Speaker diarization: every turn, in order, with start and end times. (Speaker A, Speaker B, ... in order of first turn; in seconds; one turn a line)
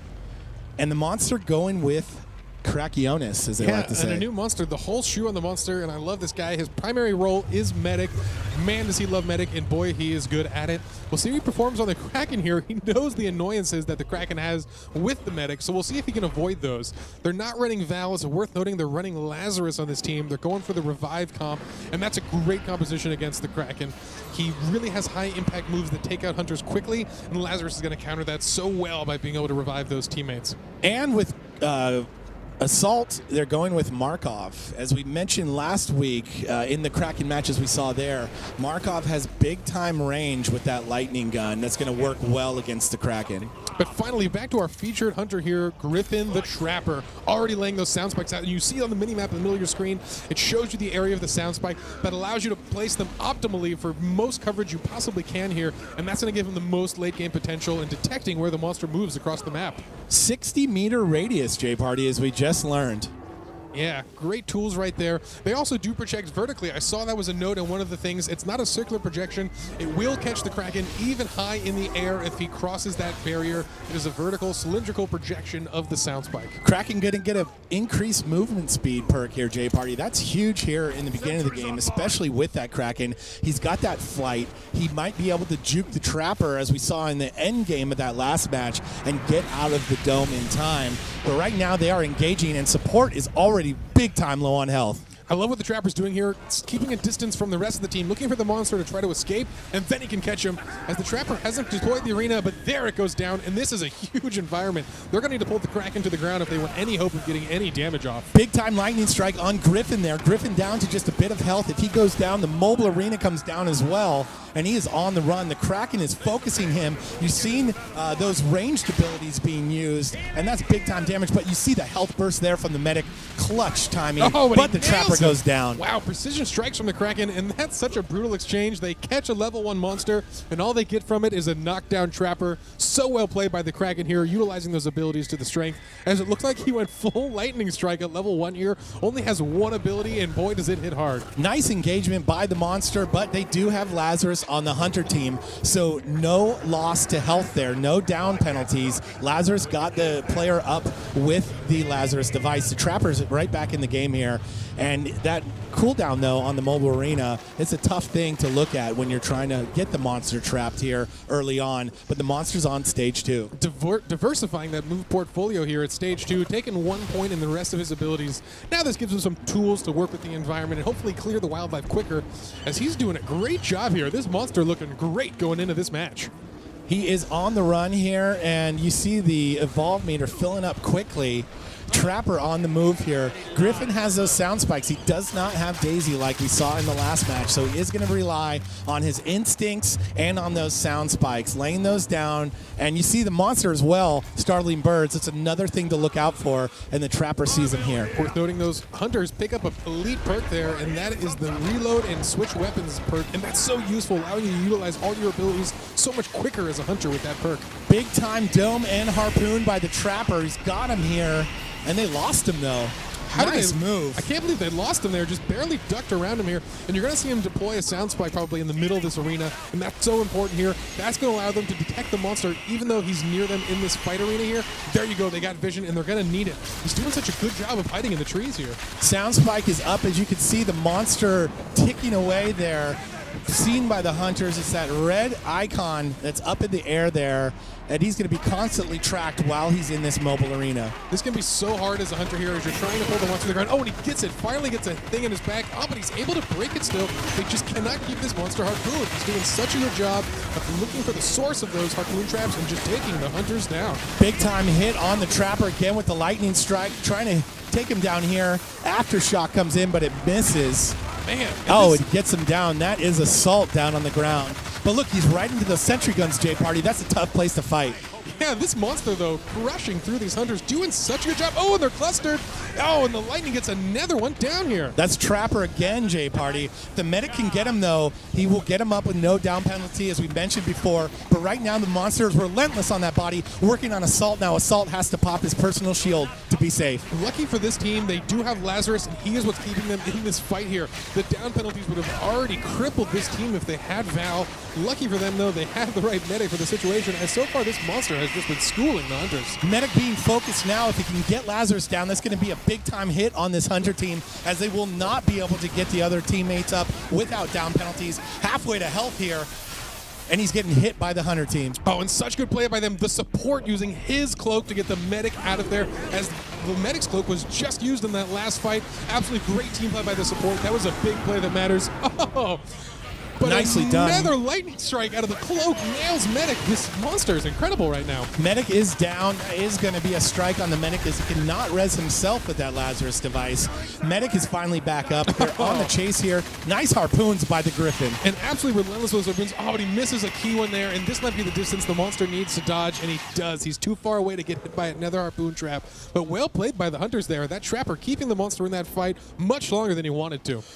Speaker A: 0.8-4.3
Speaker B: 3.6-30.6
Speaker A: 30.8-32.1
Speaker A: 32.6-43.5
Speaker B: 43.7-59.9
Speaker A: 60.1-63.1
Speaker B: 63.7-76.6
Speaker A: 76.6-95.0
Speaker B: 95.3-108.3
Speaker A: 108.3-125.8
Speaker B: 124.2-141.3
Speaker A: 141.4-163.5
Speaker B: 163.5-176.3
Speaker A: 176.9-198.1
Speaker B: 198.1-207.7
Speaker A: 207.9-214.3
Speaker B: 213.3-228.8
Speaker A: 229.0-241.0
Speaker B: 241.1-254.1
Speaker A: 254.2-261.0
Speaker B: 261.2-262.1
Speaker A: 261.7-268.0
Speaker B: 268.2-275.0
Speaker A: 275.0-287.1
Speaker B: 287.1-299.6
Speaker A: 299.6-309.5
Speaker A: 310.3-311.8
Speaker B: 311.9-328.3
Speaker A: 323.4-324.4
Speaker A: 328.4-338.2
Speaker B: 335.3-335.9
Speaker B: 338.2-350.6